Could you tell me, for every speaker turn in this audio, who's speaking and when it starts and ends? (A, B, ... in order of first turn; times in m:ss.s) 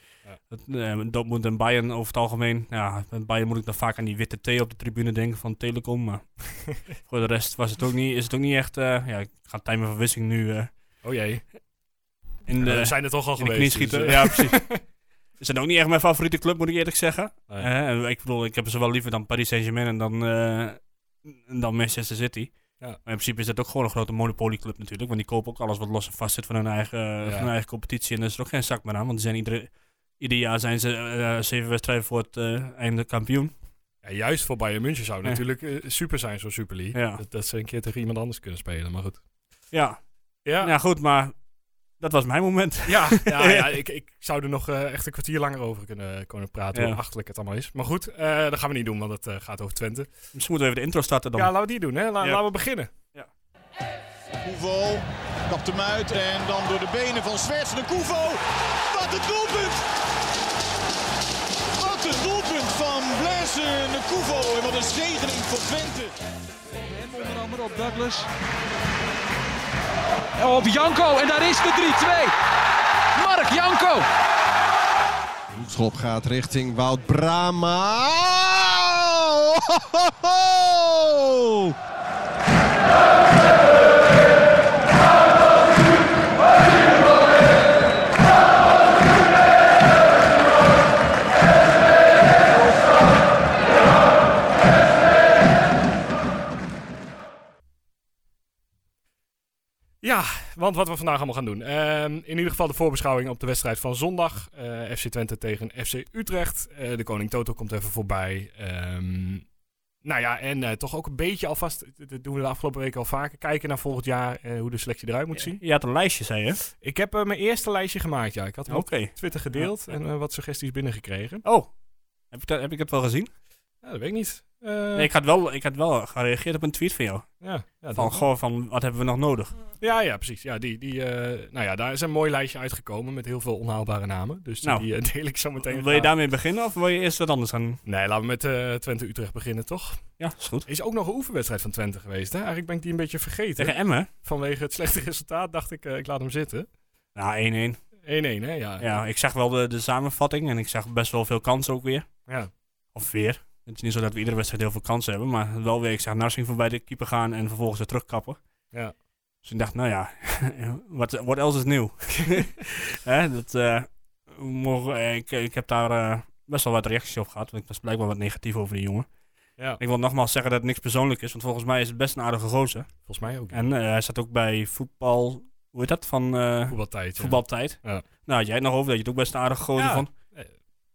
0:00.5-0:10.7 A
0:11.0-0:11.4 B
0:12.5-0:14.7 A
0:12.6-0:14.8 B
0:15.4-0:22.5 A
0:23.0-0:33.5 A
0:27.2-0:27.5 B
0:34.0-0:39.2 B
0:36.9-0:37.2 A
0:39.7-0:40.0 A
0:40.4-0:40.7 B
0:40.6-0:41.3 A
0:42.0-0:43.7 A
0:42.9-0:50.1 B
0:50.3-0:51.5 A
0:51.4-0:52.9 B
0:54.4-0:59.9 C
1:01.8-1:06.2 C
1:06.9-1:08.3 D
1:10.4-1:12.3 D
1:13.2-1:14.1 D
1:15.5-1:21.7 E
1:40.0-1:49.5 B
1:50.0-1:55.6 B
1:55.4-1:56.6 A
1:56.7-2:01.4 B
1:58.7-1:59.7 A
2:01.4-2:01.7 A
2:02.3-2:03.3 A
2:03.8-2:05.1 B
2:05.0-2:07.4 A
2:07.4-2:08.2 B
2:08.0-2:09.6 A
2:09.8-2:16.1 B
2:15.6-2:17.8 A
2:17.9-2:20.0 B
2:20.2-2:20.7 A
2:20.7-2:26.7 B
2:23.6-2:24.1 A
2:27.2-2:27.8 A
2:28.0-2:28.9 B
2:28.8-2:32.1 A
2:32.9-2:38.4 A
2:39.4-2:49.1 A
2:49.8-2:52.9 A
2:53.1-2:53.6 B
2:53.5-3:00.1 A
2:56.7-2:58.0 B
2:59.8-3:00.5 B